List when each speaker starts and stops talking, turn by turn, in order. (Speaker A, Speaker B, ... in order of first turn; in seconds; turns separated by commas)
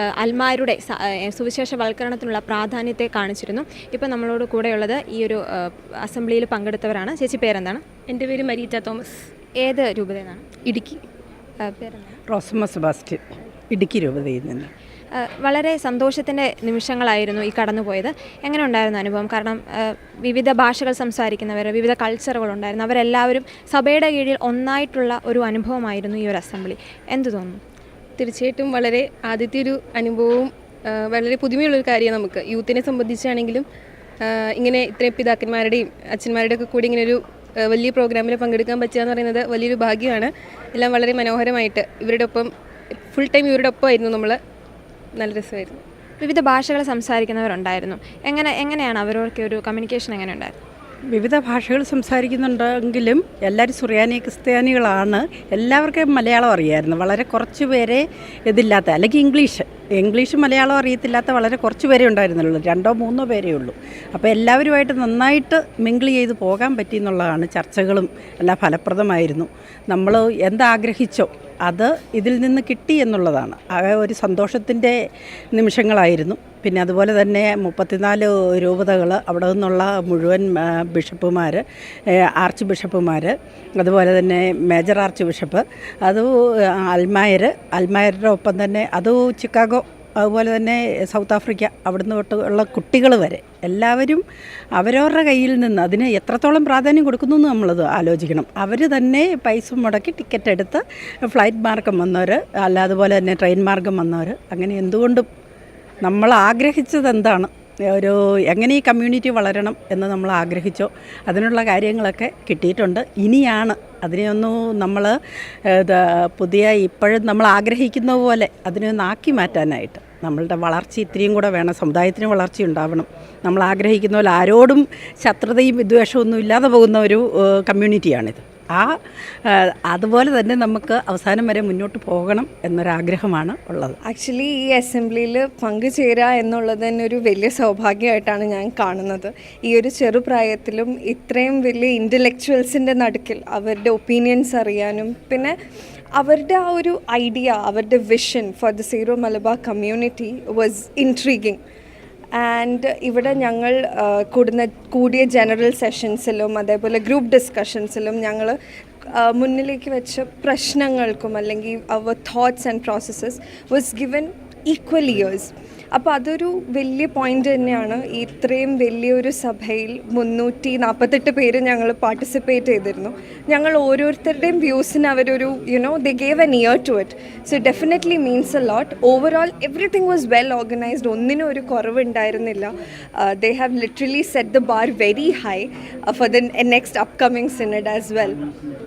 Speaker A: 0.2-5.4, Speaker A: 6.0-7.8, Speaker B: 8.1-9.2, Speaker A: 9.6-10.4, Speaker B: 10.7-11.0, Speaker A: 11.6-12.2, Speaker C: 12.3-14.7, Speaker A: 15.2-19.6, Speaker A: 20.2-27.6, Speaker B: 28.2-33.6, Speaker B: 34.2-44.4, Speaker B: 45.1-45.8, Speaker A: 46.2-50.5, Speaker C: 51.1-74.9, Speaker C: 75.5-81.6, Speaker C: 82.1-94.2, Speaker C: 94.7-105.2, Speaker C: 106.0-115.2, Speaker C: 115.7-129.0, Speaker C: 129.5-134.0, Speaker D: 134.0-145.5, Speaker D: 146.2-151.6, Speaker D: 152.3-158.6, Speaker D: 159.2-182.7, Speaker D: 183.2-188.4